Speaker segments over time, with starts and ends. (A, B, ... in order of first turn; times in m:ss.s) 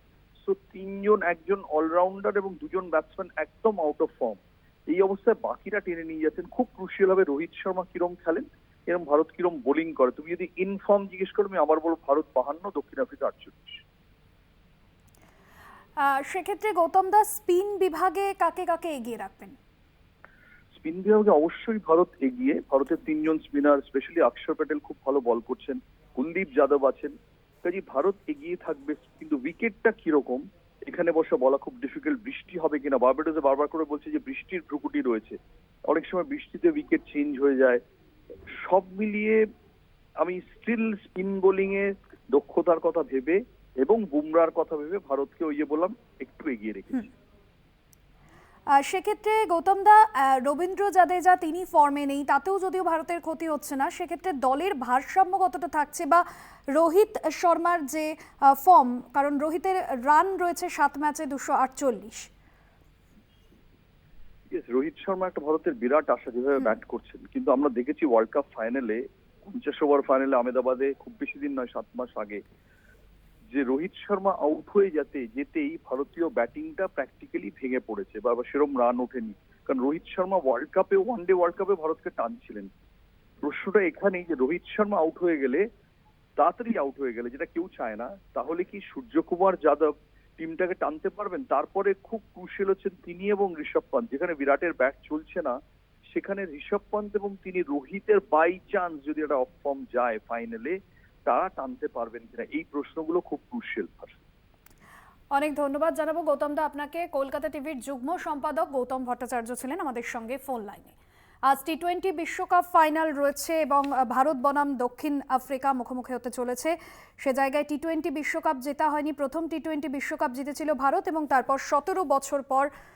0:00.4-0:13.8 A
0:16.0-0:19.6 B
0:20.7-0:27.1 A
0:27.6-0:35.4 A
0:35.9-0:37.8 A
0:38.6-0:39.4 A
0:40.2-0:47.1 A
0:48.8-1:02.3 B
1:04.5-1:12.4 A
1:13.5-1:22.7 A
1:23.4-1:25.6 A
1:26.4-1:35.6 A
1:36.1-1:44.2 A
1:45.3-1:51.0 B
1:51.5-2:02.7 B